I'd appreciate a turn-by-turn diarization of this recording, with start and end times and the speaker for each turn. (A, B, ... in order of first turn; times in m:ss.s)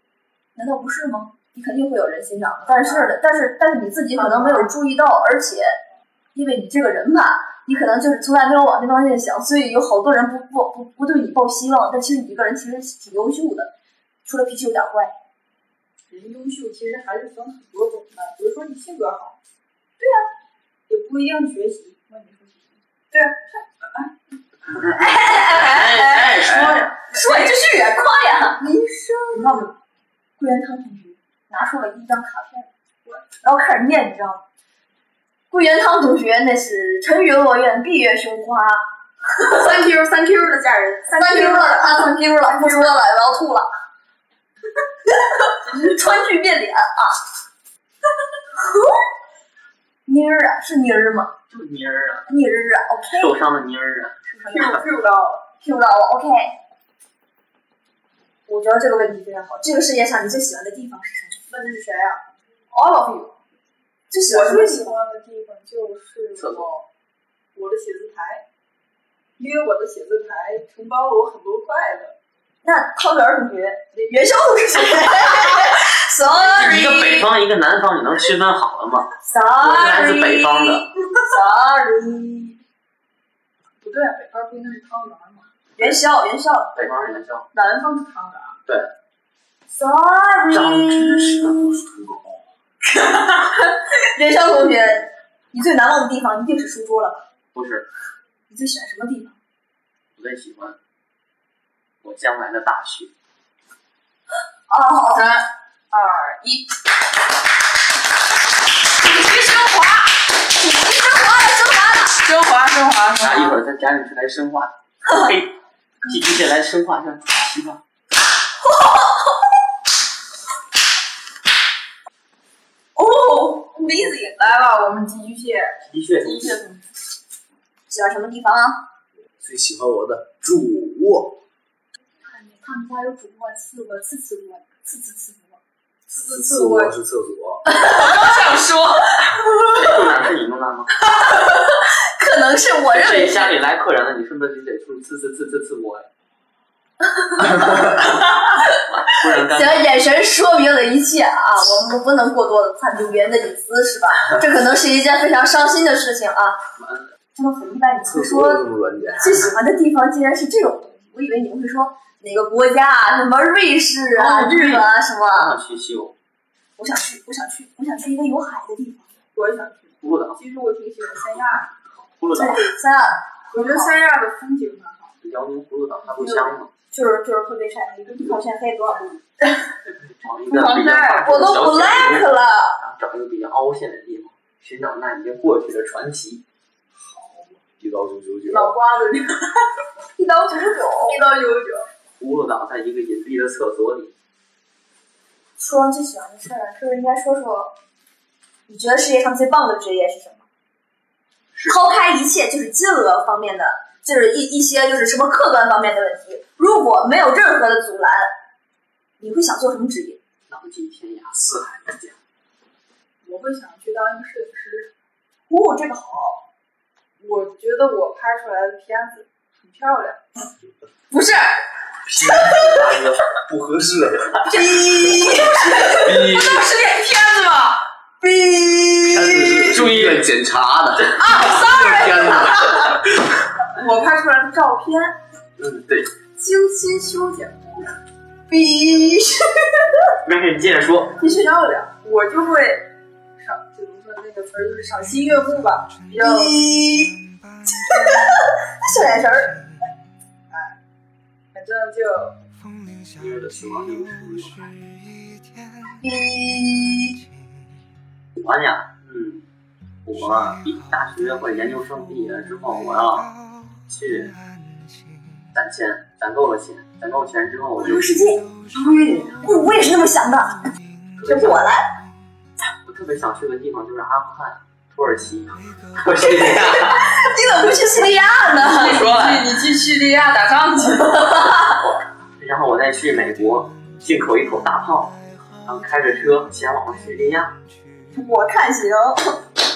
0:00.5-0:05.8 A
0:02.7-0:03.1 B
0:04.1-0:04.7 B
0:06.3-0:13.7 A
0:14.2-0:15.1 A
0:16.1-0:19.4 B
0:20.0-0:20.2 A
0:20.9-0:22.8 B
0:23.1-0:23.4 A
0:24.7-0:28.7 A
0:24.8-0:26.9 C
0:27.1-0:27.6 B
0:28.6-0:29.7 B
0:30.4-0:32.7 A
0:33.4-0:34.4 A
0:35.5-0:38.8 A
0:39.3-0:42.8 B
0:41.1-0:43.7 A
0:45.1-0:47.2 A
0:48.6-0:49.0 A
0:50.0-0:51.3 A
0:51.5-0:52.3 C
0:52.3-0:53.3 A
0:53.1-0:54.2 C
0:54.3-0:55.5 B
0:55.6-0:56.6 A
0:58.5-1:01.4 A
1:01.5-1:03.3 B
1:04.1-1:05.0 A
1:04.2-1:06.9 B
1:06.4-1:06.6 C
1:07.5-1:08.4 B
1:09.4-1:12.2 B
1:12.6-1:17.2 A
1:16.3-1:20.9 C
1:19.2-1:22.6 A
1:23.8-1:25.5 B
1:25.8-1:26.8 A
1:26.7-1:27.5 C
1:27.5-1:28.6 B
1:28.6-1:28.9 C
1:29.7-1:31.5 A
1:30.5-1:32.4 D
1:32.9-1:37.2 A
1:37.5-1:37.9 C
1:38.5-1:39.4 A
1:40.1-1:40.8 C
1:42.0-1:43.1 C
1:44.7-1:45.2 A
1:45.1-1:46.7 B
1:49.0-1:50.2 B
1:50.5-1:52.1 A
1:52.1-1:53.6 B
1:53.2-1:55.5 C
1:56.0-1:57.8 C
1:58.6-1:59.3 A
2:03.0-2:03.9 A
2:03.7-2:06.8 B
2:05.8-2:06.6 C
2:07.9-2:08.8 A
2:09.4-2:11.4 D
2:12.2-2:15.6 B
2:15.0-2:15.3 A
2:16.1-2:16.9 B
2:16.1-2:17.6 D
2:17.6-2:19.2 B
2:17.8-2:18.4 A
2:19.7-2:20.9 C
2:21.0-2:23.5 A
2:22.9-2:26.1 C
2:27.0-2:36.6 A
2:28.9-2:30.0 C
2:36.8-2:37.1 C
2:37.3-2:38.6 A
2:38.0-2:39.5 D
2:39.2-2:45.5 A
2:44.1-2:46.1 C
2:46.8-2:49.1 A
2:49.3-2:51.7 B
2:50.0-2:50.4 C
2:52.0-2:52.7 C
2:52.3-2:53.9 A
2:53.5-2:55.2 B
2:55.2-2:56.7 C
2:56.2-2:59.2 A
2:59.8-3:06.4 C
3:00.5-3:01.5 B
3:01.2-3:02.8 A
3:06.9-3:08.8 D
3:08.4-3:09.7 B
3:10.2-3:11.2 A
3:11.0-3:11.9 B
3:12.1-3:14.1 C
3:15.6-3:17.7 A
3:18.7-3:20.4 A
3:21.6-3:28.3 A
3:29.2-3:30.2 A
3:30.5-3:32.2 C
3:33.2-3:34.9 B
3:35.5-3:36.4 A
3:37.2-3:40.2 B
3:41.1-3:41.5 A
3:42.1-3:44.4 D
3:44.5-3:49.6 B
3:44.5-3:45.9 A
3:45.9-3:46.7 D
3:49.0-3:53.0 D
3:49.7-3:50.3 C
3:51.2-3:52.8 B
3:53.8-3:55.2 B
3:55.6-3:56.1 C
3:56.4-3:57.8 B
3:58.5-3:59.4 A
4:00.2-4:01.2 C
4:01.2-4:06.7 B
4:06.2-4:09.6 A
4:10.5-4:10.8 B
4:11.5-4:12.4 B
4:13.1-4:14.8 C
4:16.0-4:17.2 A
4:18.4-4:19.4 C
4:20.0-4:23.3 C
4:23.9-4:24.4 C
4:25.5-4:28.2 C
4:27.8-4:30.6 A
4:31.2-4:31.7 C
4:31.2-4:31.9 A
4:32.8-4:37.1 C
4:36.2-4:39.1 A
4:38.6-4:41.6 B
4:38.8-4:39.4 C
4:42.4-4:47.5 C
4:48.1-4:49.4 A